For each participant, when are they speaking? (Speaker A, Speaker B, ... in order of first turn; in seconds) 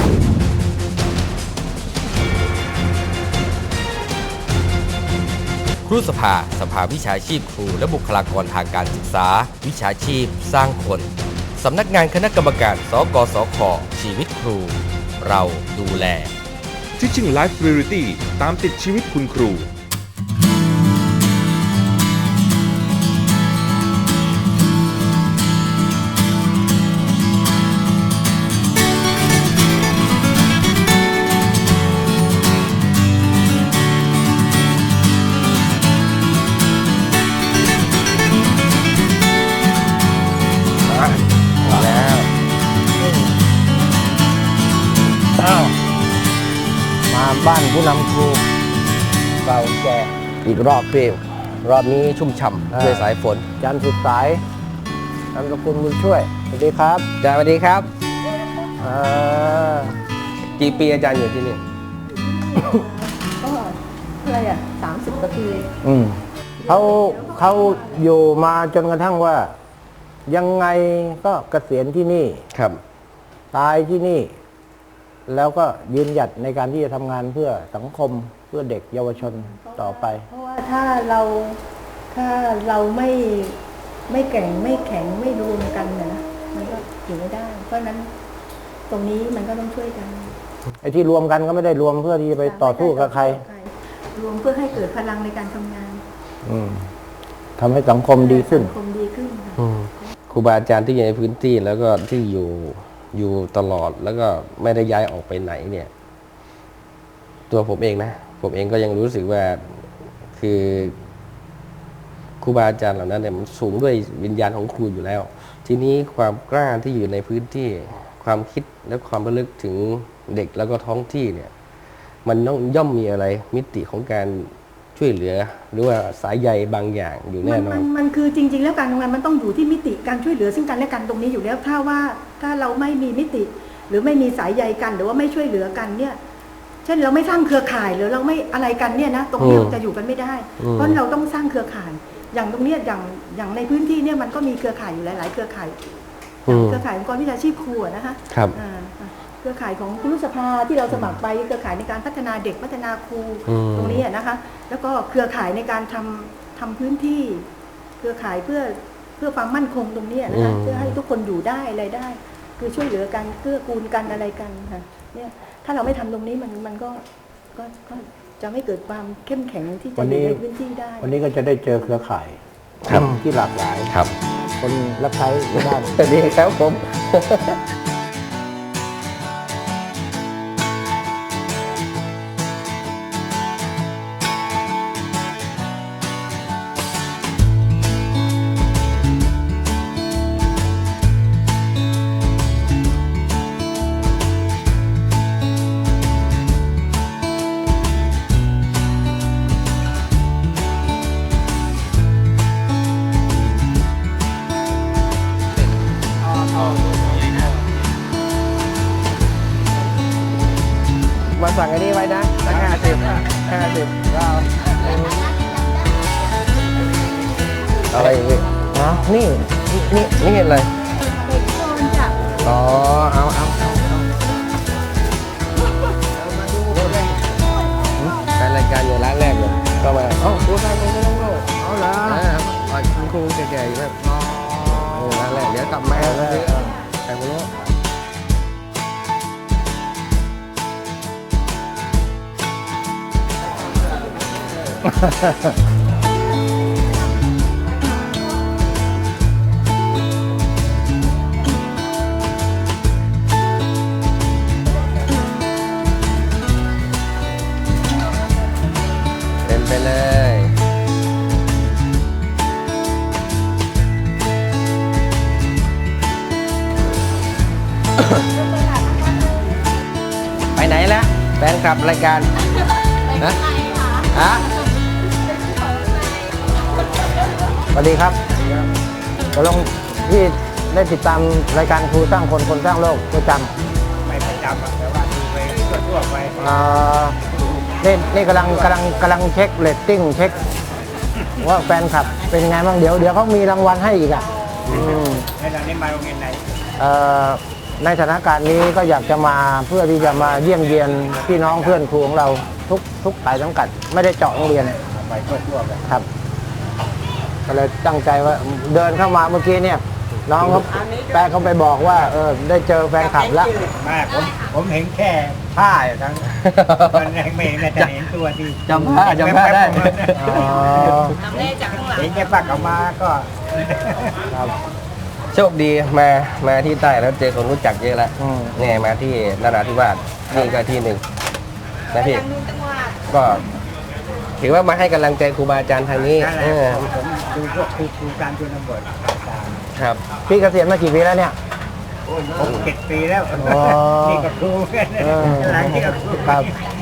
Speaker A: 5.8-16.3, 40.9-42.3, 50.4-53.5, 57.2-57.9, 60.6-61.6, 72.5-72.8, 99.5-105.9, 107.5-111.0, 112.4-121.5, 122.2-127.9, 139.4-139.8, 140.6-141.0, 146.5-146.8, 148.3-148.6, 150.9-151.2, 153.4-154.0, 160.3-161.0, 172.8-173.1, 175.5-177.6, 211.3-215.2, 217.9-218.5, 219.7-220.7, 222.4-224.0, 226.6-227.1, 228.3-237.5, 259.4-260.5, 270.5-272.3, 273.1-273.5, 274.1-274.5, 316.2-318.0, 318.6-321.2, 325.3-331.0, 331.9-332.3, 333.1-333.4, 334.4-336.9, 339.7-340.0, 342.4-342.7
Speaker B: 17.0-19.7
Speaker C: 41.6-42.0, 43.0-43.3, 45.4-45.7, 47.1-48.4, 49.4-50.1, 52.7-53.1, 53.6-54.4, 55.3-57.1, 58.8-60.0, 65.8-69.5, 70.3-72.4, 73.5-74.3, 75.3-80.2, 90.8-93.4, 96.4-96.9, 97.6-98.7, 170.0-170.4, 171.0-173.9, 174.6-176.0, 218.7-219.6, 235.9-236.7, 244.9-245.6, 277.7-278.2, 279.3-283.5, 286.4-287.1, 287.8-290.4, 291.4-295.3, 296.8-304.8, 307.4-313.7, 320.1-321.2, 328.2-328.6, 340.3-341.4, 343.4-344.3, 345.0-346.5
Speaker D: 62.1-65.7, 66.6-67.9, 79.2-81.6, 82.1-83.5, 84.1-88.1, 88.9-90.3, 92.4-96.0, 98.2-99.6, 127.4-136.2, 136.8-145.8, 146.5-157.4, 158.0-171.1, 221.3-222.1
Speaker E: 284.1-286.4, 294.9-296.4, 304.9-305.9, 313.6-316.2, 316.9-320.1, 321.3-324.2, 336.0-339.6, 342.1-346.5